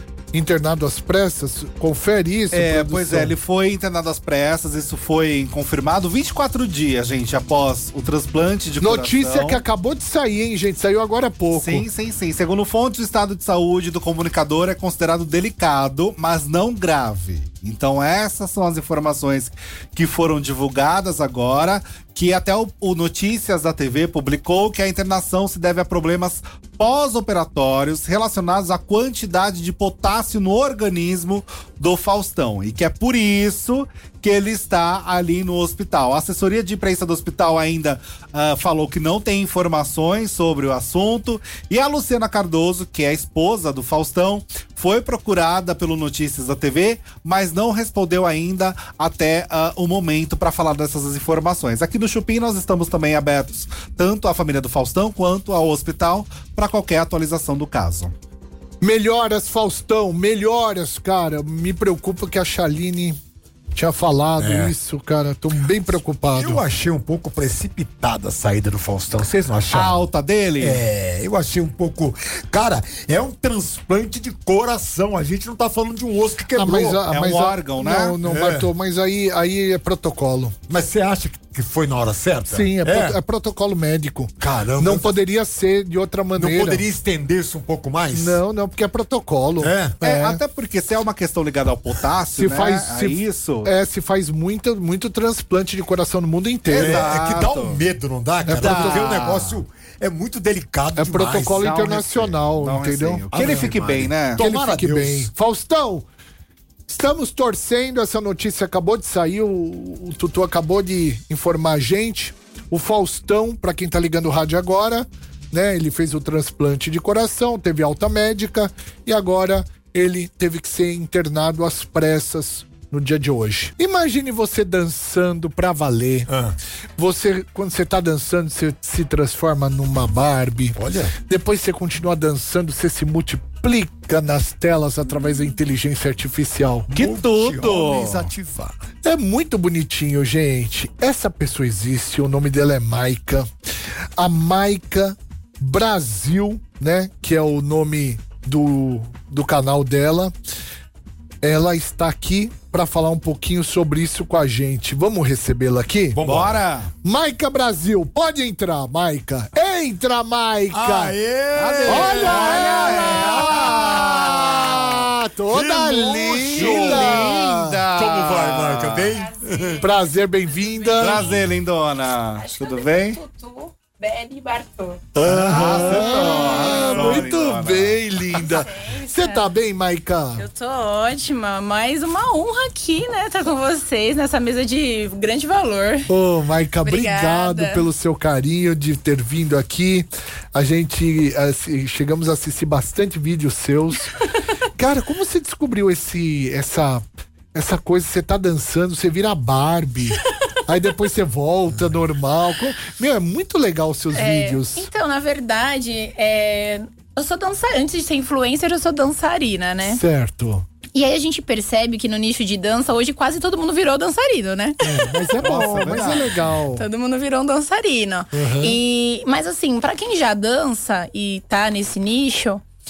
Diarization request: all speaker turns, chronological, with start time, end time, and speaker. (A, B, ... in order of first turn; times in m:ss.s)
0:00.3-0:03.3 A
0:02.5-0:09.6 B
0:08.8-0:11.8 A
0:11.5-0:58.1 B
0:58.8-1:03.2 A
1:03.7-1:06.6 A
1:04.4-1:04.7 C
1:06.3-1:10.0 C
1:09.7-1:10.8 B
1:10.6-1:17.0 C
1:16.5-1:20.6 A
1:17.1-1:18.2 B
1:18.2-1:18.7 C
1:20.7-1:23.2 C
1:22.5-1:26.8 A
1:24.4-1:25.1 C
1:26.4-1:28.4 C
1:28.1-1:30.4 A
1:29.6-1:29.9 C
1:30.0-1:33.7 B
1:32.4-1:37.1 A
1:36.7-1:37.8 B
1:36.7-1:41.8 C
1:38.4-1:39.1 A
1:38.5-1:39.6 B
1:41.0-1:43.7 A
1:41.6-1:44.4 B
1:43.3-1:45.3 C
1:44.4-1:46.1 A
1:46.9-2:06.3 A
2:06.3-2:06.6 C
2:07.0-2:10.8 A
2:10.7-2:11.2 C
2:11.3-2:16.9 A
2:16.9-2:18.8 C
2:16.9-2:18.3 B
2:19.0-2:23.4 A
2:24.2-2:30.3 A
2:31.4-2:36.2 A
2:36.1-2:36.6 C
2:36.2-2:36.9 B
2:37.0-2:41.2 A
2:40.7-2:44.8 C
2:41.5-2:45.0 B
2:41.8-2:47.8 A
2:45.5-2:47.4 C
2:46.5-2:49.1 B
2:47.9-2:49.8 C
2:49.1-2:51.3 D
2:49.8-2:51.3 A
2:51.0-2:53.2 B
2:52.3-2:55.1 D
2:55.2-3:00.5 A
2:55.2-2:58.2 B
2:55.3-2:55.6 C
2:55.9-2:57.2 D
2:58.3-2:59.5 D
3:00.4-3:06.1 D
3:06.1-3:14.2 A
3:06.8-3:07.9 D
3:14.8-3:24.9 A
3:24.1-3:30.0 D
3:29.8-3:30.7 A
3:30.9-3:35.1 D
3:34.8-3:36.8 A
3:35.4-3:36.6 B
3:36.7-3:42.6 D
3:38.3-3:38.8 A